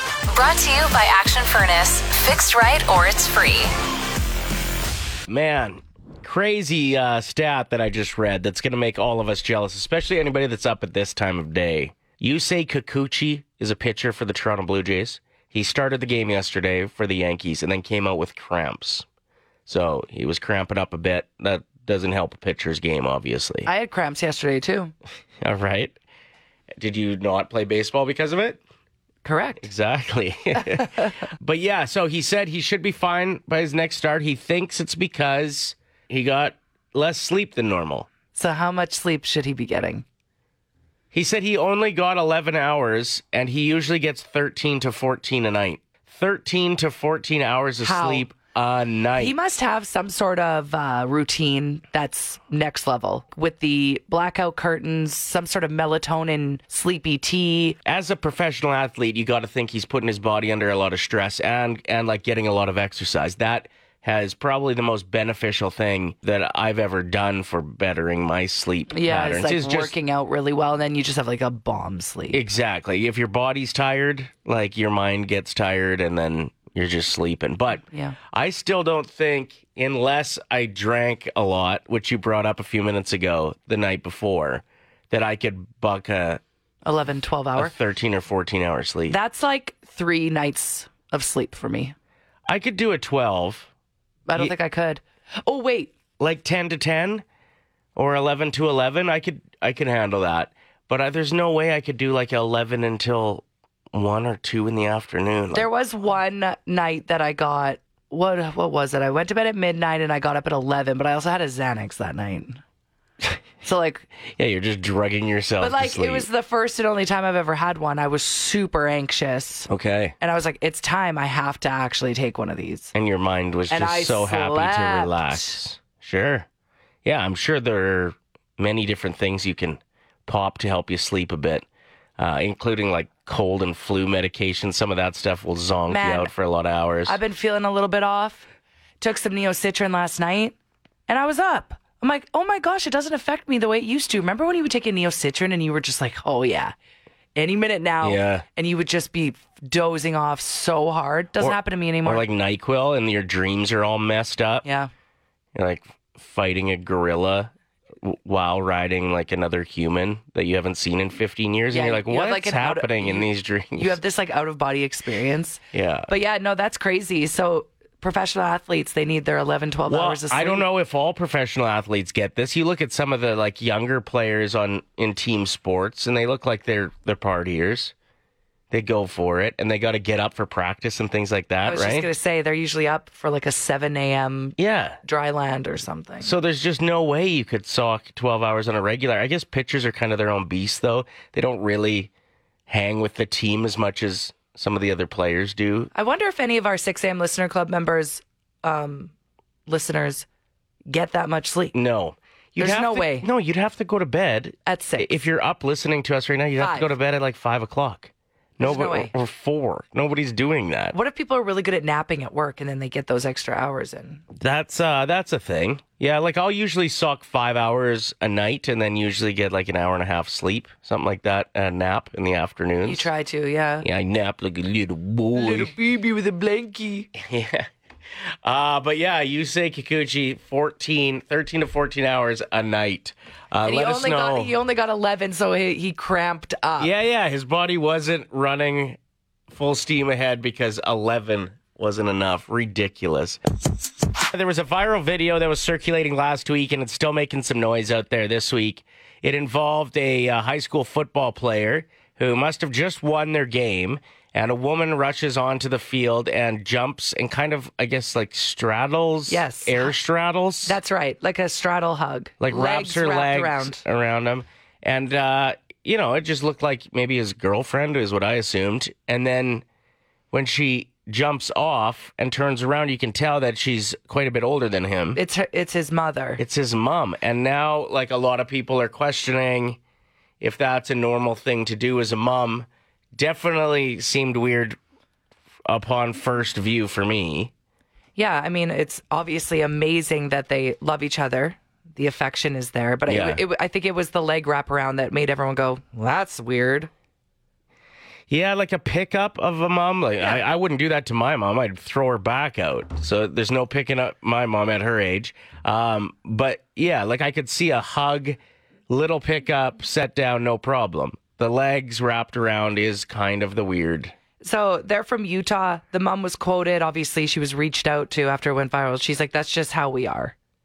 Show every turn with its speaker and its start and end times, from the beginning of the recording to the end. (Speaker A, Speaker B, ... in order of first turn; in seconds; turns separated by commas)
Speaker A: 0.3-3.7, Speaker B: 5.3-19.1, Speaker B: 19.7-23.7, Speaker C: 23.6-24.9, Speaker B: 25.4-26.0, Speaker B: 26.8-28.6, Speaker C: 29.2-29.7, Speaker B: 29.6-38.1, Speaker C: 38.3-40.0, Speaker B: 41.1-49.4, Speaker C: 47.8-48.3, Speaker C: 49.2-57.8, Speaker B: 57.9-69.9, Speaker C: 68.9-72.4, Speaker B: 72.3-86.4, Speaker C: 77.9-78.2, Speaker C: 86.8-87.8, Speaker B: 87.6-89.2, Speaker C: 89.1-92.0, Speaker B: 92.5-93.7, Speaker C: 94.3-95.9, Speaker B: 96.2-97.2, Speaker B: 98.0-105.7, Speaker C: 105.5-112.6, Speaker C: 113.6-114.1, Speaker B: 114.2-116.3, Speaker C: 115.6-119.7, Speaker B: 119.7-120.2, Speaker C: 120.2-122.9, Speaker B: 122.9-126.5, Speaker C: 123.7-125.6, Speaker B: 127.0-131.7, Speaker B: 132.2-137.2, Speaker C: 135.9-136.3, Speaker C: 137.1-138.5, Speaker C: 139.0-140.6, Speaker C: 141.1-146.8, Speaker C: 147.4-152.2, Speaker B: 148.0-148.5, Speaker B: 151.4-154.7, Speaker C: 154.7-154.9, Speaker B: 155.5-164.0, Speaker C: 161.7-170.7, Speaker B: 165.7-166.1, Speaker B: 169.9-177.9, Speaker B: 178.7-182.1, Speaker C: 181.7-186.3, Speaker B: 184.6-185.0, Speaker B: 186.2-192.1, Speaker B: 192.7-195.9, Speaker C: 195.9-199.1, Speaker C: 199.7-200.3, Speaker C: 200.9-201.8, Speaker B: 201.7-210.9, Speaker C: 202.6-203.3, Speaker C: 204.7-205.2, Speaker C: 206.6-206.9, Speaker C: 208.6-209.1, Speaker C: 210.9-214.2, Speaker B: 214.3-223.1, Speaker C: 222.8-223.9, Speaker B: 223.8-225.7, Speaker C: 225.3-227.1, Speaker B: 227.1-227.7, Speaker B: 228.4-234.6, Speaker C: 233.7-236.9, Speaker B: 236.8-239.0, Speaker B: 239.5-243.4, Speaker B: 244.2-260.8, Speaker C: 259.3-259.9, Speaker C: 260.6-263.8, Speaker B: 262.4-269.6, Speaker B: 270.3-275.2, Speaker C: 275.1-276.4, Speaker B: 276.4-279.8, Speaker B: 280.4-284.8, Speaker B: 285.7-287.5, Speaker C: 288.2-296.9, Speaker B: 293.1-293.4, Speaker B: 298.3-308.4, Speaker B: 308.9-314.1, Speaker C: 314.4-320.4